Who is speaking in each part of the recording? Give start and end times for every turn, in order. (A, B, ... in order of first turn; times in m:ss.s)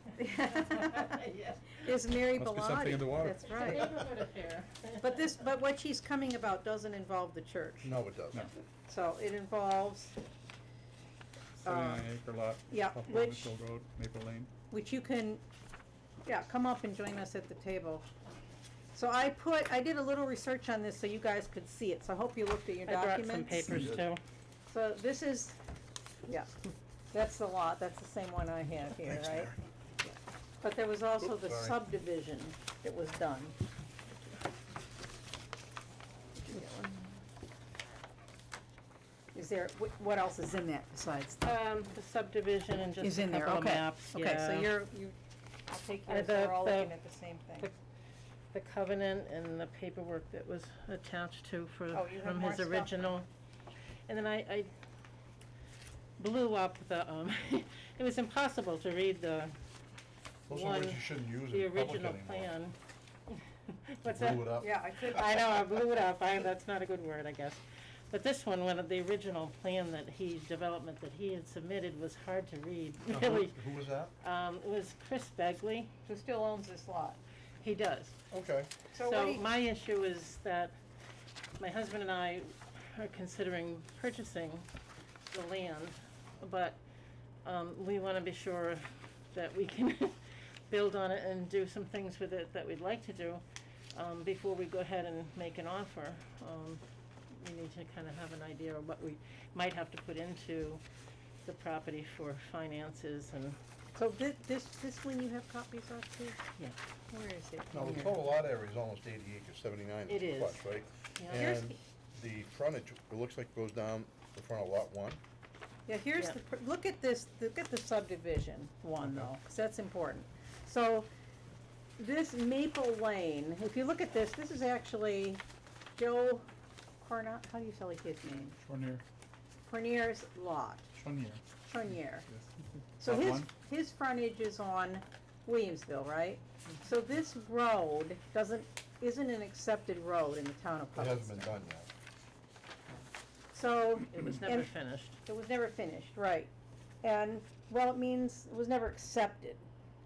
0:00.2-0:01.2 A
0:00.4-0:01.8 B
0:01.8-0:04.0 A
0:02.3-0:03.7 C
0:03.4-0:05.2 B
0:05.0-0:07.9 A
0:07.8-0:08.5 D
0:08.8-0:10.2 A
0:11.6-0:12.0 A
0:11.6-0:14.5 C
0:12.7-0:13.5 A
0:14.7-0:15.4 A
0:16.2-0:18.0 A
0:18.9-0:23.9 A
0:22.9-0:24.2 B
0:23.7-0:24.0 D
0:24.7-0:25.6 A
0:27.1-0:29.5 A
0:29.0-0:29.6 D
0:30.0-0:33.5 A
0:31.2-0:31.8 D
0:36.4-0:37.1 A
0:39.3-0:41.4 A
0:41.4-0:44.7 B
0:43.0-0:45.2 A
0:45.7-0:47.7 A
0:46.1-0:46.9 B
0:48.5-0:53.3 B
0:51.9-0:53.1 A
0:54.1-0:54.7 B
0:56.2-0:59.5 B
1:00.5-1:02.6 D
1:00.5-1:02.8 B
1:03.3-1:13.7 B
1:04.0-1:04.7 D
1:04.6-1:05.2 A
1:13.1-1:14.1 D
1:14.2-1:15.9 B
1:16.1-1:17.2 A
1:17.6-1:18.1 B
1:18.3-1:18.8 D
1:18.9-1:19.4 A
1:19.0-1:20.7 B
1:21.6-1:24.6 B
1:25.3-1:26.8 B
1:27.4-1:33.4 B
1:33.9-1:40.8 B
1:41.4-1:43.6 B
1:43.9-1:46.4 A
1:47.1-1:48.3 A
1:47.7-1:55.2 D
1:50.1-1:51.6 B
1:51.3-1:51.8 A
1:55.9-2:01.1 A
1:59.0-1:59.3 C
2:02.0-2:05.4 A
2:06.0-2:06.4 A
2:07.0-2:08.6 A
2:08.6-2:09.0 C
2:09.6-2:10.9 A
2:10.9-2:11.4 C
2:11.6-2:12.3 A
2:12.3-2:13.5 C
2:13.0-2:21.6 A
2:20.9-2:21.9 D
2:23.5-2:26.5 A
2:24.1-2:25.2 B
2:27.0-2:29.6 A